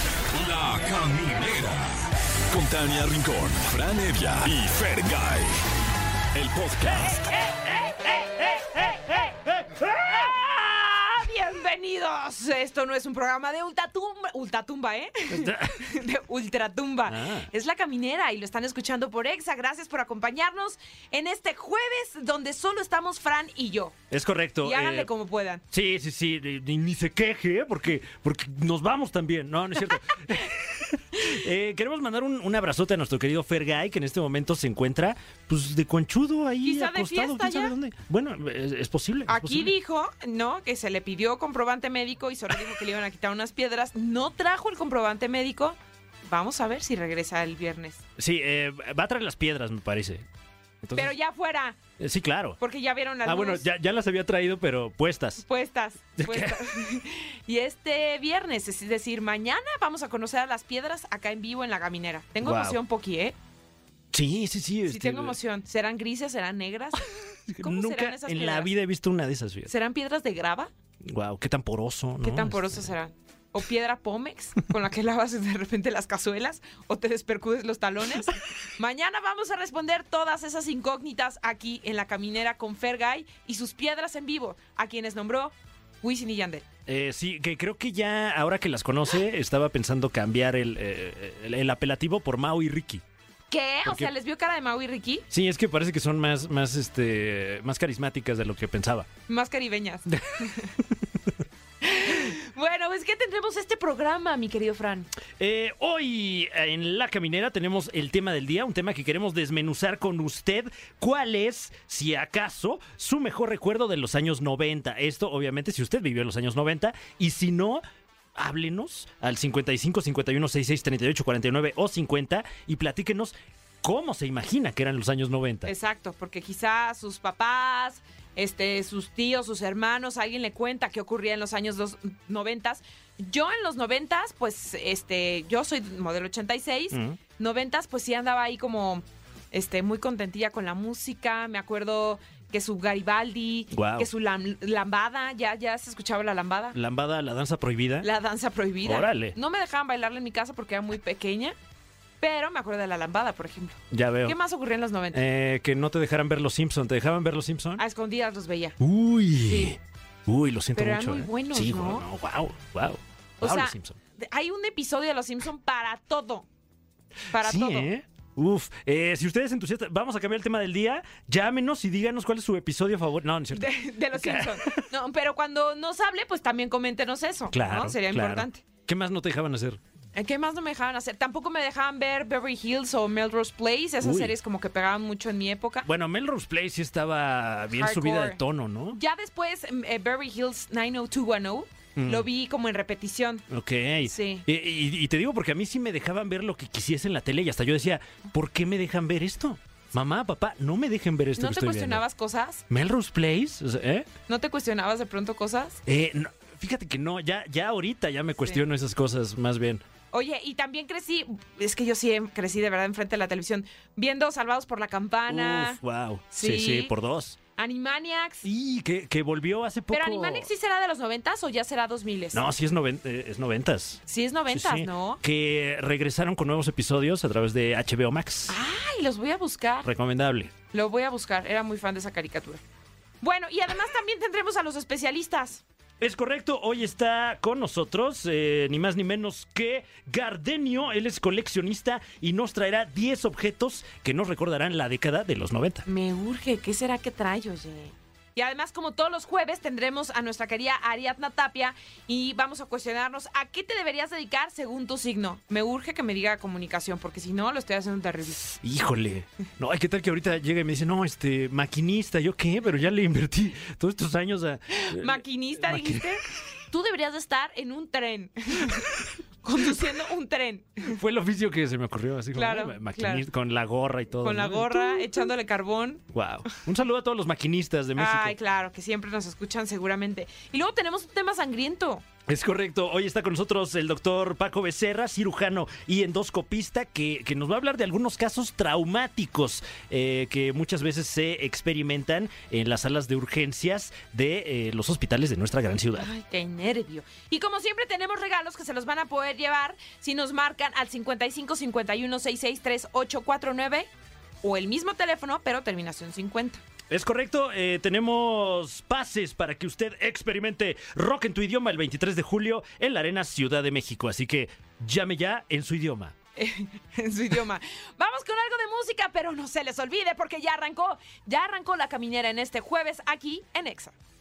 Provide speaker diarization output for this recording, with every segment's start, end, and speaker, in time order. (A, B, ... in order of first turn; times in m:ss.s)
0:00.3-0:05.6 A
0:06.3-0:07.3 A
0:07.7-0:08.9 B
0:08.1-0:10.2 C
0:10.0-0:24.0 B
0:15.3-0:15.8 C
0:17.1-0:17.5 C
0:24.1-0:25.1 C
0:24.6-0:25.6 B
0:25.7-0:39.7 C
0:36.6-0:37.7 B
0:39.3-0:45.8 B
0:46.3-0:48.0 B
0:48.2-0:50.2 C
0:50.8-0:51.1 C
0:51.0-0:51.8 B
0:52.0-0:52.6 C
0:52.6-0:53.6 B
0:53.2-0:55.4 C
0:55.4-1:03.4 B
0:56.2-0:56.6 C
1:02.4-1:02.8 C
1:04.1-1:05.4 C
1:04.9-1:08.7 B
1:07.5-1:09.7 C
1:09.7-1:10.7 B
1:11.0-1:12.9 C
1:12.2-1:26.6 B
1:26.9-1:33.0 C
1:33.5-1:35.3 B
1:33.8-1:34.1 C
1:35.3-1:39.1 C
1:39.3-1:40.7 B
1:40.1-1:41.0 C
1:41.8-1:45.1 B
1:45.4-1:57.8 C
1:58.4-2:05.7 C
2:05.7-2:26.8 B
2:16.9-2:17.2 C
2:23.7-2:24.1 C
2:26.7-2:28.1 C
2:28.0-2:31.6 B
2:28.8-2:29.4 C
2:32.2-2:35.2 B
2:33.9-2:34.4 C
2:35.1-2:37.8 C
2:37.8-2:38.8 B
2:38.8-2:44.0 C
2:39.5-2:39.8 B
2:40.8-2:42.1 B
2:43.4-2:46.5 B
2:47.3-2:47.9 B
2:47.4-2:54.9 C
2:53.5-2:58.6 B
2:57.5-2:59.8 C
3:00.2-3:05.9 B
3:04.0-3:04.3 C
3:05.8-3:09.0 C
3:07.8-3:13.4 B
3:12.0-3:12.3 C
3:13.5-3:22.0 C
3:14.1-3:14.5 B
3:21.4-3:22.6 B
3:22.7-3:24.1 C
3:24.3-3:25.8 B
3:25.9-3:29.8 C
3:30.1-3:35.8 B
3:35.3-3:37.4 C
3:36.3-3:36.9 B
3:37.6-3:38.5 B
3:38.4-3:40.5 C
3:39.9-3:42.4 B
3:42.3-3:48.6 C
3:44.1-3:45.2 B
3:48.5-3:49.9 B
3:49.8-3:50.5 C
3:50.7-3:52.6 B
3:53.2-3:55.6 B
3:56.0-4:05.9 C
4:05.9-4:18.5 B
4:18.4-4:26.1 C
4:24.7-4:28.9 B
4:29.4-4:31.0 B
4:30.9-4:35.3 C
4:32.4-4:33.2 B
4:34.2-4:36.0 B
4:36.1-4:38.4 C
4:38.0-4:42.0 B
4:42.3-4:56.1 C
4:56.0-5:03.9 B
5:04.4-5:06.6 B
5:06.9-5:16.2 C
5:16.4-5:24.0 B